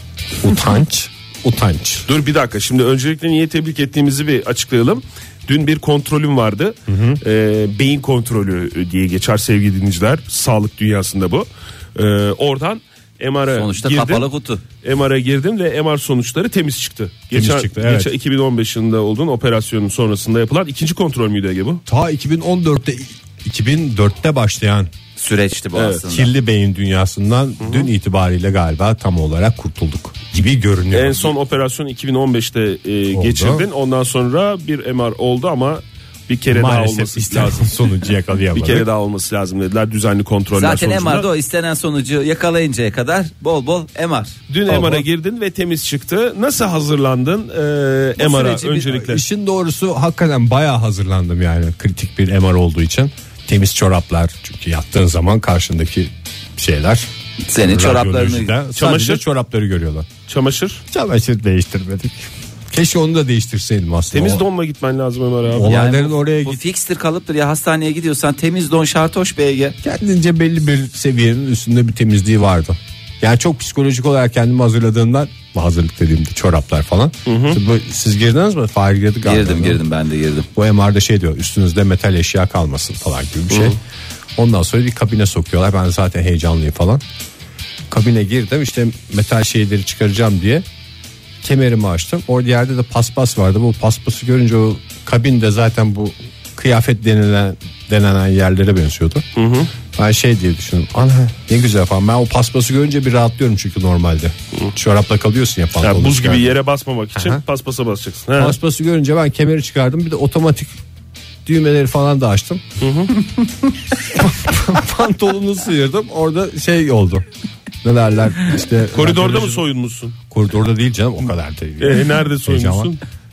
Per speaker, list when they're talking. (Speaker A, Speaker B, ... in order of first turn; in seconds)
Speaker A: 0.4-2.1, 6.9-7.2, 17.3-18.1, 21.9-24.9, 26.1-31.3, 33.1-33.7, 36.5-38.9, 44.7-45.0, 48.9-57.1, 57.6-60.1, 60.9-64.5, 65.5-66.6, 69.8-79.8, 80.6-83.8, 84.4-87.0, 87.9-90.7, 91.4-99.3, 99.9-106.5, 107.2-107.4, 108.4-110.8, 111.5-112.6, 114.0-117.3, 117.8-119.6, 120.3-122.9
Speaker B: 2.1-14.2, 14.8-21.8, 25.8-26.0, 27.6-27.9, 30.9-37.8, 38.5-41.3, 44.5-49.2, 58.8-59.2, 60.3-60.8, 64.1-65.8, 77.3-77.6, 99.4-99.7, 105.8-108.6, 112.8-113.2, 118.9-120.2, 121.8-123.0
Speaker C: 13.5-14.6, 25.2-26.3, 40.5-44.4, 48.2-48.9, 57.5-58.5, 65.7-69.8, 79.2-80.5